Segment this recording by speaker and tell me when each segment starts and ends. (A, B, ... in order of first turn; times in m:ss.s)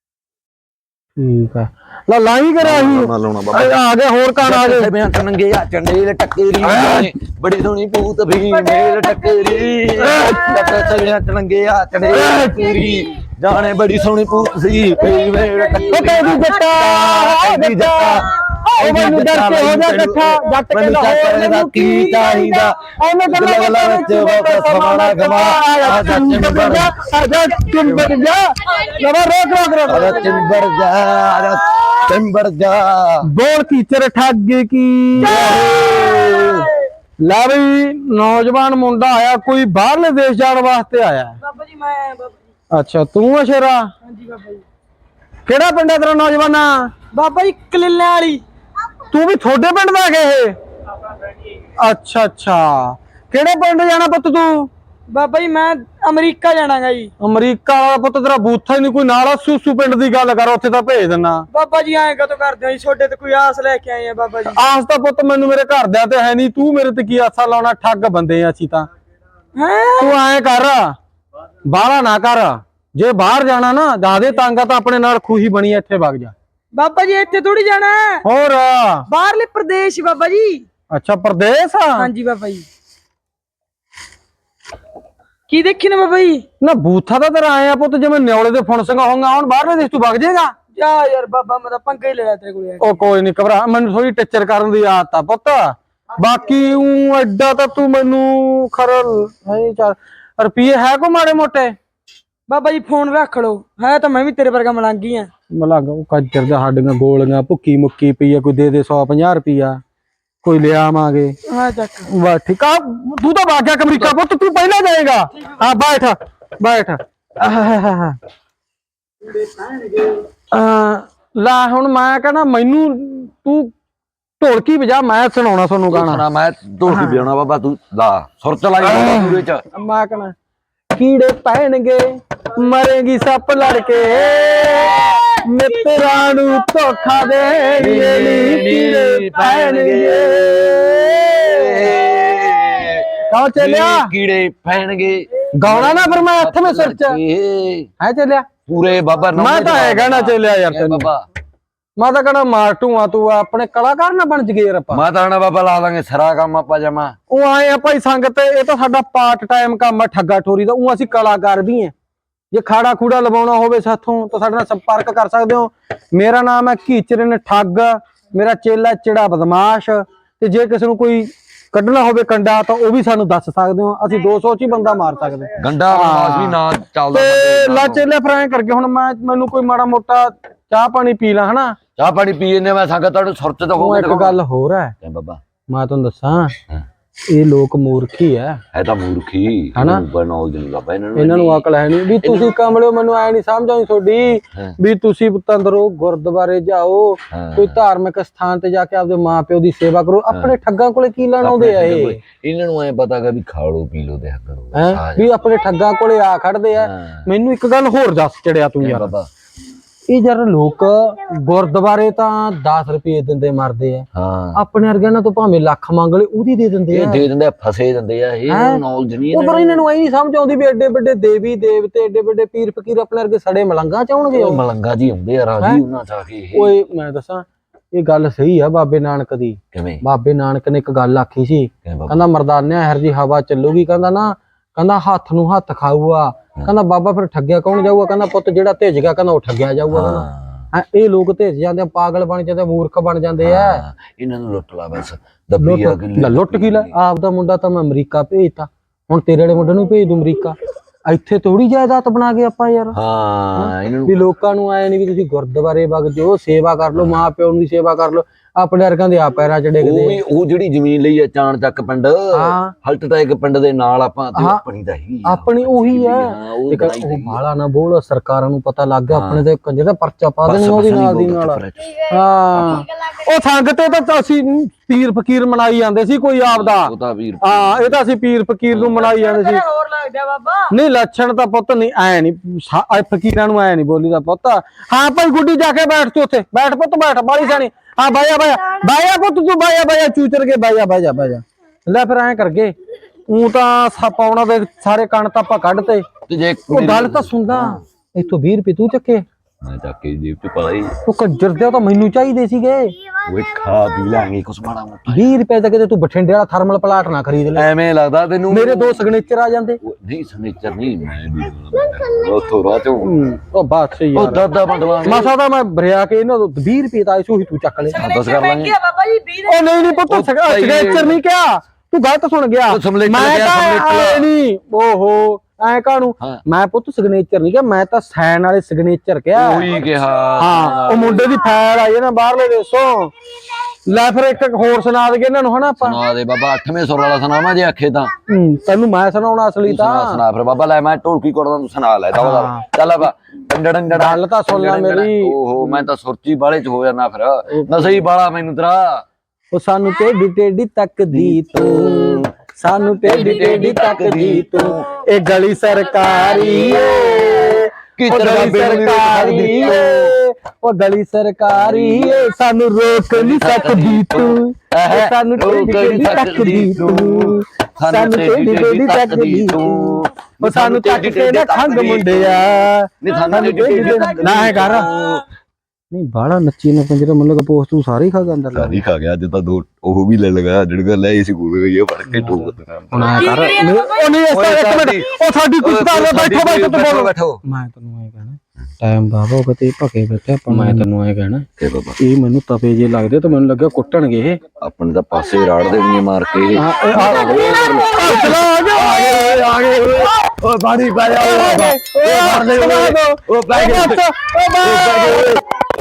0:01.2-0:04.9 A
0:02.6-0:03.8 B
0:04.4-0:26.9 B
0:06.7-0:07.0 A
0:08.6-0:09.6 C
0:10.0-0:10.8 A
0:12.1-0:12.9 A
0:15.0-0:16.8 C
0:15.9-0:30.4 A
0:27.8-0:28.2 B
0:29.9-0:33.3 B
0:30.2-0:30.6 C
0:33.2-0:35.6 A
0:35.2-0:36.7 B
0:35.3-0:36.7 C
0:37.2-0:41.4 A
0:41.4-0:42.4 C
0:42.7-0:43.9 A
0:44.0-0:44.6 C
0:45.5-0:46.9 A
0:47.1-0:48.4 C
0:49.1-0:50.6 A
0:51.8-0:54.7 A
0:55.1-0:57.1 C
0:57.2-1:01.4 A
1:01.5-1:04.6 C
1:04.6-1:08.9 A
1:09.6-1:10.2 C
1:10.0-1:11.0 A
1:11.7-1:16.3 A
1:16.7-1:18.2 C
1:18.2-1:19.1 A
1:19.1-1:20.6 C
1:20.9-1:22.1 A
1:22.0-1:22.7 C
1:25.5-1:26.4 C
1:26.6-1:30.5 A
1:30.7-1:33.1 C
1:32.8-1:41.7 A
1:42.5-1:45.3 C
1:45.5-1:49.8 A
1:50.4-1:51.4 A
1:51.5-1:52.1 C
1:52.1-1:58.2 A
2:00.5-2:03.7 A
2:04.4-2:06.2 A
2:05.9-2:09.6 B
2:06.9-2:07.2 A
2:08.8-2:10.4 A
2:10.9-2:21.0 A
2:17.8-2:27.9 B
2:23.3-2:24.1 A
2:25.6-2:27.2 A
2:28.0-2:28.5 A
2:28.7-2:31.2 B
2:29.4-2:31.1 A
2:32.0-2:35.0 A
2:34.9-2:37.2 B
2:37.3-2:41.9 A
2:42.5-2:56.6 A
2:55.6-2:58.1 B
2:57.1-3:01.8 A
3:02.0-3:04.4 B
3:03.8-3:05.0 A
3:05.0-3:05.4 B
3:05.7-3:06.5 A
3:07.3-3:08.6 A
3:08.7-3:11.6 B
3:09.8-3:10.0 A
3:11.2-3:22.2 A
3:12.2-3:12.6 B
3:17.3-3:17.8 B
3:20.3-3:20.6 B
3:21.4-3:25.3 B
3:24.7-3:29.1 A
3:26.8-3:27.3 B
3:28.8-3:29.3 B
3:30.1-3:37.2 A
3:34.1-3:34.6 B
3:36.9-3:39.8 B
3:38.5-3:44.6 A
3:44.3-3:46.8 B
3:46.6-4:03.8 A
3:49.7-3:50.0 B
3:51.8-3:52.2 B
3:59.9-4:00.7 B
4:03.4-4:07.0 B
4:05.6-4:13.0 A
4:13.0-4:14.2 B
4:13.6-4:20.2 A
4:17.0-4:17.3 B
4:19.8-4:27.4 B
4:22.3-4:22.7 A
4:24.4-4:24.6 A
4:25.2-4:39.6 A
4:29.1-4:29.4 B
4:30.4-4:32.0 B
4:32.5-4:32.9 B
4:36.4-4:38.1 B
4:38.7-4:39.1 B
4:39.0-4:40.7 C
4:40.7-4:52.7 A
4:53.3-4:56.1 A
4:56.3-4:57.8 B
4:56.7-4:59.2 A
4:59.6-5:01.0 B
5:01.0-5:02.9 A
5:03.2-5:05.3 B
5:05.1-5:07.7 A
5:07.5-5:09.1 B
5:08.5-5:09.8 A
5:09.8-5:13.1 B
5:13.0-5:14.4 A
5:14.1-5:15.3 B
5:15.0-5:18.1 A
5:17.9-5:20.0 C
5:18.0-5:18.8 B
5:19.5-5:29.8 A
5:20.1-5:21.2 B
5:22.7-5:24.3 B
5:29.3-5:31.3 B
5:30.4-5:33.1 A
5:33.9-5:36.0 A
5:35.7-5:38.1 B
5:38.3-5:40.2 A
5:39.6-5:49.0 B
5:42.2-5:42.7 A
5:43.9-5:45.9 A
5:47.5-5:48.0 A
5:49.5-6:14.9 A
5:51.1-5:52.3 B
5:53.0-5:54.9 B
5:56.3-6:00.1 B
6:01.5-6:02.3 B
6:03.1-6:15.2 B
6:14.0-6:14.8 C
6:15.9-6:18.8 A
6:18.5-6:23.5 B
6:22.2-6:31.5 A
6:23.0-6:24.2 C
6:24.3-6:27.4 B
6:30.5-6:30.8 B
6:31.6-6:32.0 B
6:32.0-6:34.4 A
6:34.6-6:44.0 B
6:36.6-6:40.3 A
6:41.1-6:45.4 A
6:44.6-6:45.4 B